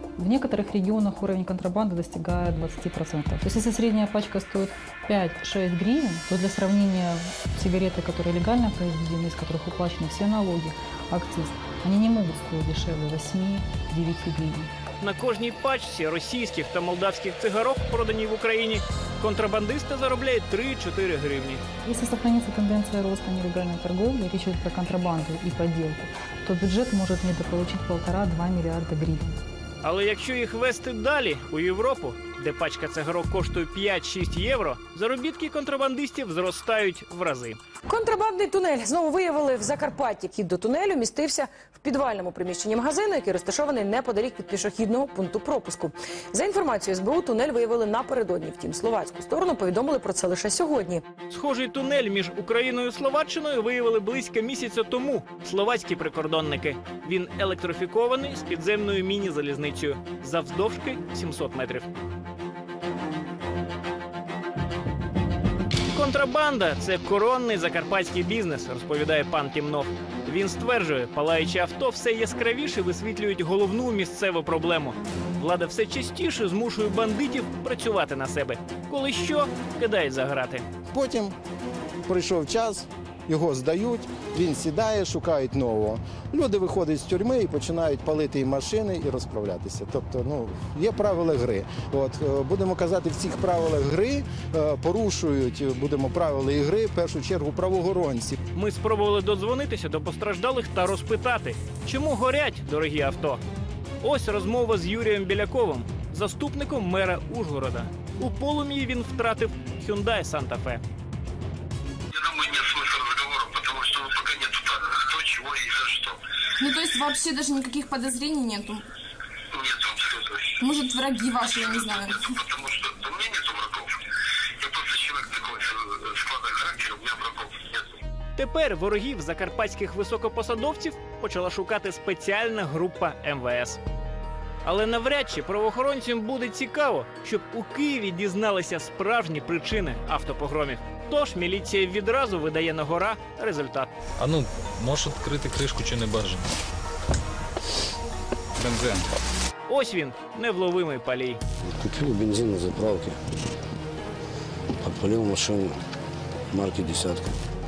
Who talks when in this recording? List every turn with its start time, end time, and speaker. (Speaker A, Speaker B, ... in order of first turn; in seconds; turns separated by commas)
Speaker A: 0.2-14.7, Speaker B: 15.0-21.6, Speaker A: 21.9-29.3, Speaker B: 29.8-37.6, Speaker C: 37.9-51.0, Speaker B: 51.3-61.9, Speaker B: 65.9-80.6, Speaker D: 80.9-81.3, Speaker D: 82.1-98.4, Speaker B: 98.5-103.4, Speaker B: 104.0-110.8, Speaker E: 112.1-116.2, Speaker F: 116.6-118.8, Speaker E: 119.5-120.6, Speaker F: 120.6-122.3, Speaker E: 121.6-124.0, Speaker E: 124.6-128.0, Speaker B: 128.3-133.8, Speaker B: 134.6-143.9, Speaker G: 144.2-146.2, Speaker B: 149.7-151.4, Speaker H: 151.7-153.2, Speaker H: 154.8-155.8, Speaker H: 156.5-157.3